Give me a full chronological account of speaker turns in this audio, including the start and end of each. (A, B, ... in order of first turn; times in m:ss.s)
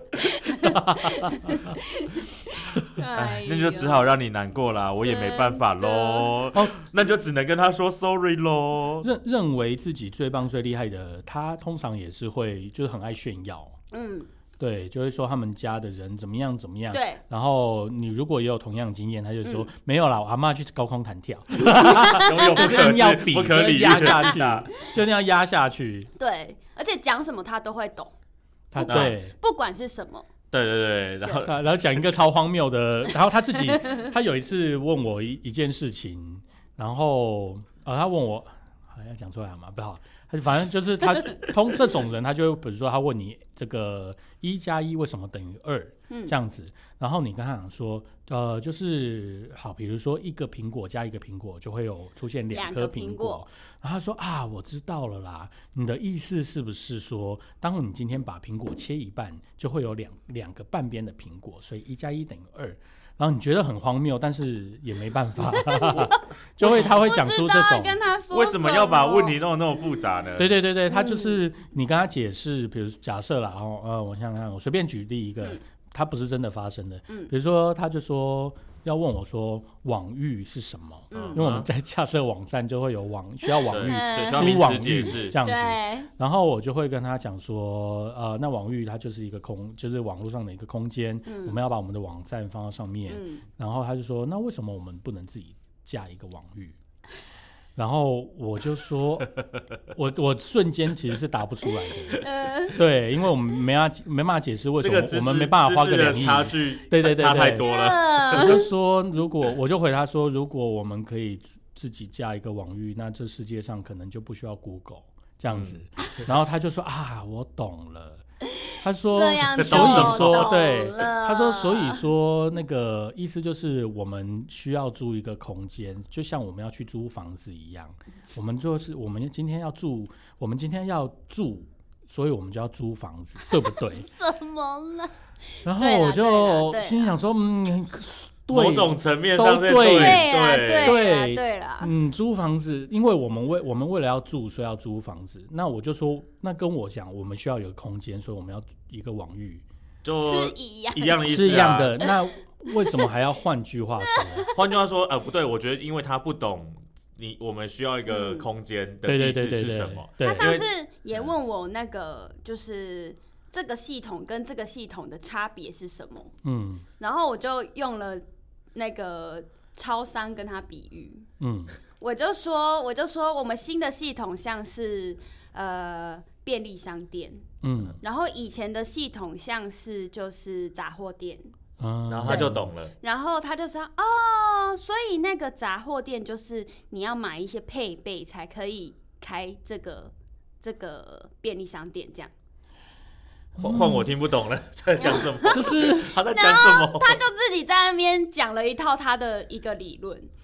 0:00.2-0:04.1 A
0:00.6-0:01.8 B
0:03.2-0:09.1 C
0:05.0-0:06.4 A
0:09.0-0:13.8 B
0:13.9-0:14.3 A
0:14.6-0:26.1 B
0:16.9-0:17.2 A
0:21.8-0:22.3 A
0:22.0-0:24.7 C
0:26.2-0:28.1 A
0:28.7-0:29.3 B
0:28.8-0:30.3 A
0:28.9-0:29.2 C
0:30.5-0:31.7 C
0:31.2-0:31.5 A
0:31.4-1:08.0 B
0:33.8-0:34.1 A
0:46.1-0:46.4 A
0:52.5-0:53.4 A
1:05.5-1:09.4 A
1:08.3-1:10.6 C
1:10.4-1:36.8 B
1:10.9-1:11.4 A
1:21.1-1:21.7 C
1:21.1-1:21.4 A
1:23.5-1:26.1 A
1:23.7-1:25.4 C
1:31.3-1:31.6 A
1:33.1-1:33.4 A
1:37.8-1:39.3 B
1:39.9-1:47.7 B
1:41.9-1:42.8 A
1:44.8-1:48.6 C
1:47.6-1:48.7 A
1:48.3-1:58.2 B
1:55.5-1:55.8 C
1:58.6-2:02.0 A
1:58.8-2:14.1 B
1:59.6-2:00.5 C
2:13.9-2:15.1 A
2:15.6-2:29.6 B
2:15.8-2:17.1 A
2:18.5-2:21.0 C
2:19.9-2:21.9 A
2:30.0-2:32.1 C
2:30.2-2:32.2 A
2:31.2-2:34.5 B
2:32.7-2:33.1 A
2:34.1-2:34.6 A
2:34.5-2:41.3 C
2:38.1-2:38.5 A
2:39.1-2:40.5 B
2:40.2-2:46.3 A
2:46.4-2:46.9 B
2:47.0-2:51.3 A
2:51.4-2:51.7 B
2:52.0-2:57.4 A
2:57.6-2:58.0 B
2:58.0-3:01.5 A
3:01.8-3:02.7 B
3:02.1-3:02.9 C
3:02.3-3:12.3 A
3:13.6-3:14.1 B
3:13.6-3:17.2 C
3:15.0-3:20.3 A
3:15.5-3:16.2 B